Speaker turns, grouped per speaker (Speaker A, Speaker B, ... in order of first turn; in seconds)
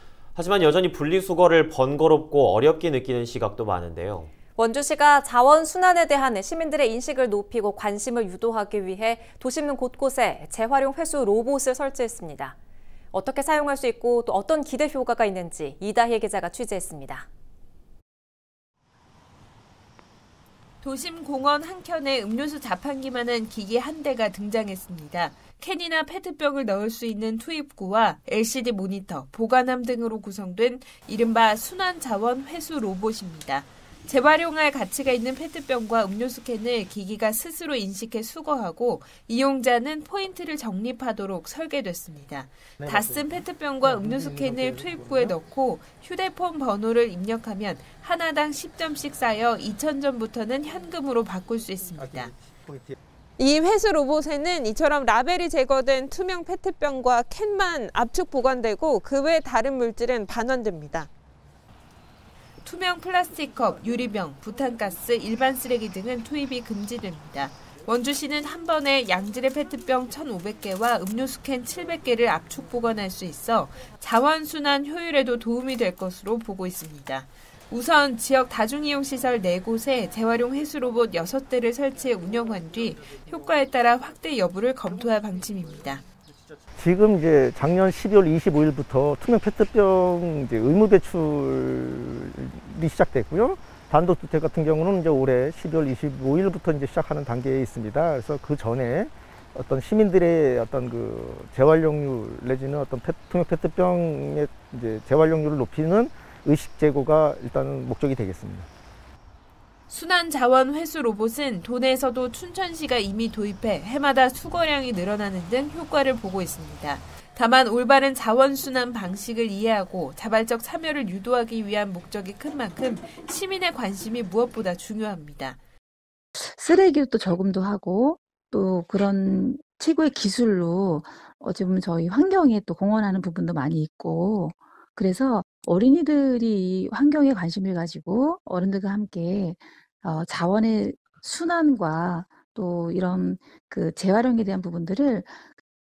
Speaker A: 0.3-4.3
Speaker B: 4.5-12.6, 13.1-17.3
Speaker C: 20.8-52.3, 62.6-86.0, 109.9-125.6
Speaker D: 42.8-43.3, 43.8-45.4, 52.6-52.9, 86.8-108.7
Speaker E: 53.4-61.1
Speaker F: 126.3-145.4